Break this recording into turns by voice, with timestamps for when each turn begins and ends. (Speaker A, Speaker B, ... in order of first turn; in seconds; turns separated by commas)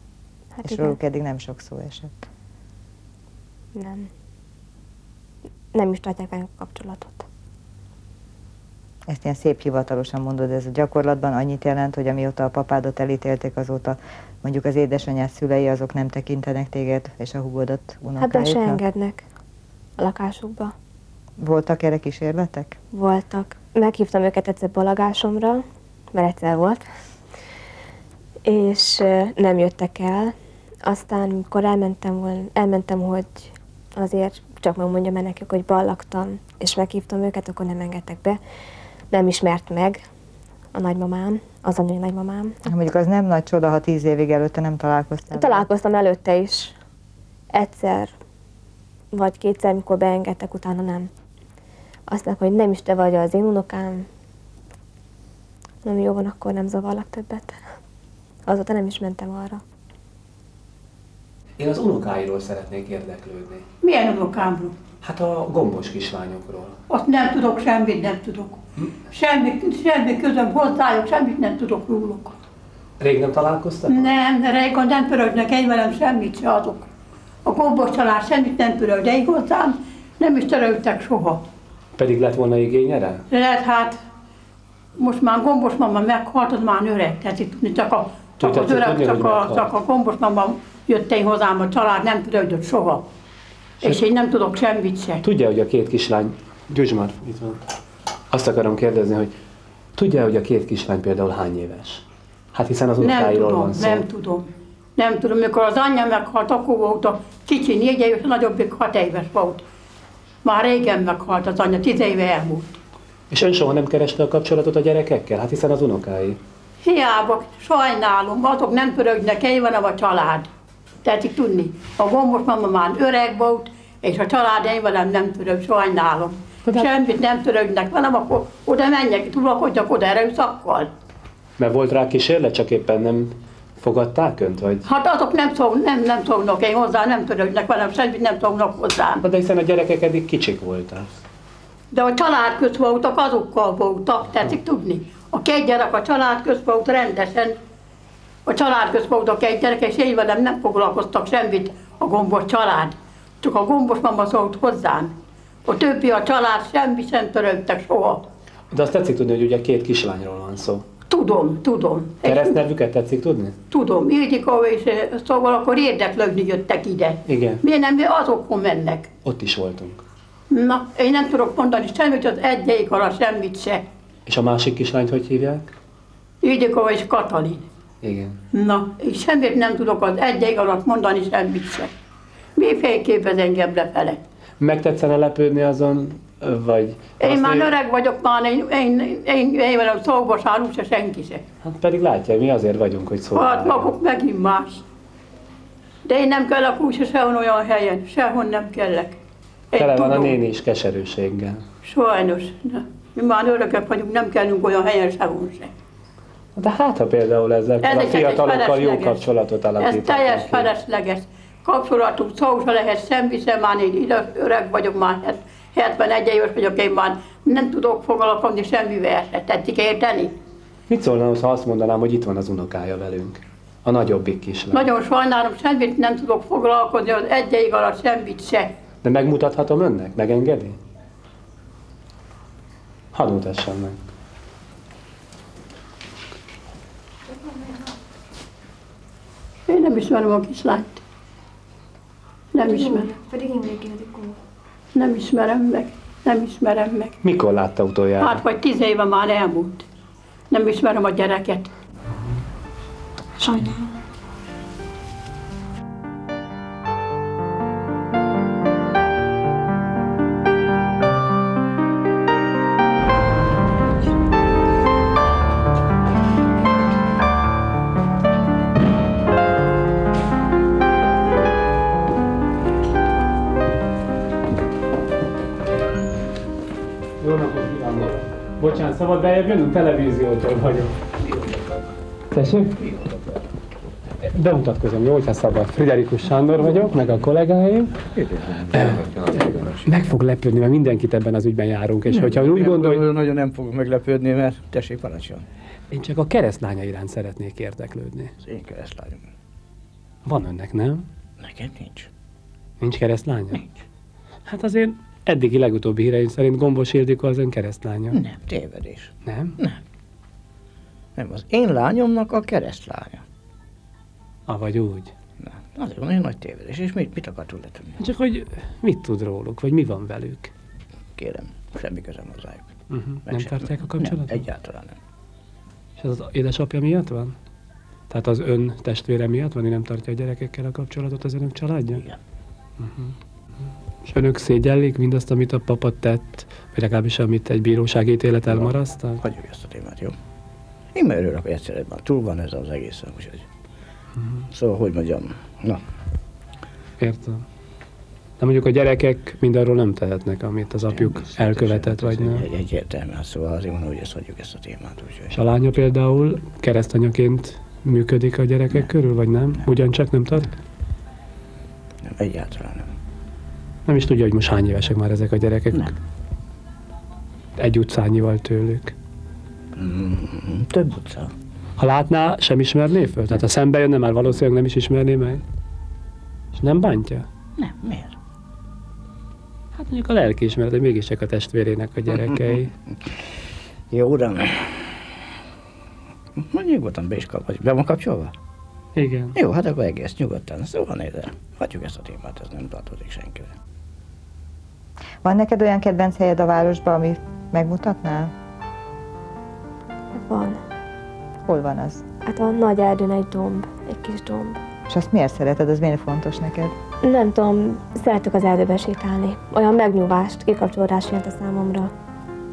Speaker A: 0.6-1.0, Speaker B: 0.6-2.2, Speaker A: 3.8-4.1, Speaker A: 5.7-7.3, Speaker B: 9.1-18.8, Speaker A: 18.2-19.2, Speaker A: 20.0-20.7, Speaker B: 21.4-22.8, Speaker A: 22.9-26.9, Speaker A: 28.4-38.4, Speaker A: 39.1-40.0, Speaker A: 40.7-42.6, Speaker B: 42.7-45.6, Speaker A: 45.3-46.8, Speaker A: 47.5-48.1, Speaker A: 49.1-51.1, Speaker A: 52.1-54.1, Speaker A: 55.8-57.6, Speaker A: 58.5-59.6, Speaker C: 61.6-63.6, Speaker D: 63.8-64.8, Speaker C: 65.0-66.8, Speaker D: 66.9-72.3, Speaker C: 73.0-74.1, Speaker D: 73.9-76.9, Speaker D: 77.5-81.4, Speaker C: 82.0-83.2, Speaker D: 83.3-84.0, Speaker D: 85.0-93.1, Speaker C: 88.4-89.7, Speaker D: 93.8-95.2, Speaker C: 95.2-97.6, Speaker C: 98.3-99.3, Speaker C: 100.0-104.0, Speaker D: 103.0-109.6, Speaker D: 110.4-112.8, Speaker C: 113.3-116.4, Speaker D: 116.8-120.5, Speaker D: 121.0-130.9, Speaker C: 126.7-126.9, Speaker C: 131.6-134.8, Speaker D: 134.8-139.2, Speaker C: 139.2-141.1, Speaker D: 141.9-147.6, Speaker D: 148.5-158.2, Speaker C: 158.7-160.8, Speaker D: 161.1-162.6, Speaker C: 162.2-163.6, Speaker D: 163.7-169.1, Speaker C: 167.3-167.6, Speaker C: 169.2-170.0, Speaker D: 170.5-173.8, Speaker C: 174.3-175.7, Speaker D: 176.4-177.7, Speaker C: 178.0-178.4, Speaker D: 178.5-181.9, Speaker D: 182.6-184.2, Speaker C: 184.6-187.7, Speaker D: 187.2-191.4, Speaker C: 191.6-193.9, Speaker D: 193.3-194.8, Speaker D: 196.1-199.2, Speaker D: 199.7-200.3, Speaker C: 199.8-201.6, Speaker D: 201.8-205.7, Speaker C: 206.6-210.7, Speaker D: 207.8-209.2, Speaker D: 209.8-220.3, Speaker C: 220.9-224.9, Speaker D: 224.7-228.7, Speaker C: 229.0-230.8, Speaker C: 233.1-234.0, Speaker D: 239.7-241.0, Speaker D: 242.5-243.2, Speaker A: 242.7-244.3, Speaker D: 244.9-247.2, Speaker C: 247.2-248.4, Speaker D: 248.2-249.8, Speaker D: 250.5-251.7, Speaker A: 253.4-253.8, Speaker C: 277.2-280.9, Speaker C: 282.3-282.8, Speaker C: 284.3-288.0, Speaker E: 288.1-289.9, Speaker C: 288.7-293.0, Speaker E: 292.1-295.5, Speaker C: 295.9-298.3, Speaker E: 298.4-299.2, Speaker C: 300.2-301.1, Speaker E: 301.4-302.1, Speaker C: 302.8-303.6, Speaker C: 304.5-308.2, Speaker E: 308.1-309.8, Speaker C: 309.3-309.6, Speaker E: 311.2-313.2, Speaker C: 314.5-315.1, Speaker E: 315.4-318.0, Speaker C: 318.0-320.5, Speaker E: 321.2-322.7, Speaker C: 322.9-324.4, Speaker E: 323.3-325.0, Speaker C: 326.0-327.4, Speaker C: 328.1-332.0, Speaker C: 332.8-333.1, Speaker C: 334.1-339.2, Speaker E: 338.5-340.1, Speaker E: 340.9-343.5, Speaker E: 344.5-345.8, Speaker C: 347.0-347.4, Speaker C: 348.4-352.4, Speaker E: 350.9-355.4, Speaker C: 355.3-360.5, Speaker E: 362.0-362.9, Speaker C: 363.9-365.9, Speaker C: 367.6-368.9, Speaker E: 369.8-371.3, Speaker C: 371.8-375.4, Speaker C: 376.6-377.3, Speaker E: 377.6-378.1, Speaker C: 379.8-382.7, Speaker E: 383.9-385.0, Speaker E: 386.4-388.3, Speaker C: 389.0-389.4, Speaker E: 389.4-393.5, Speaker B: 395.2-398.3, Speaker A: 400.1-400.6, Speaker B: 401.5-402.0, Speaker A: 402.2-404.6, Speaker B: 404.9-406.7, Speaker A: 407.0-411.9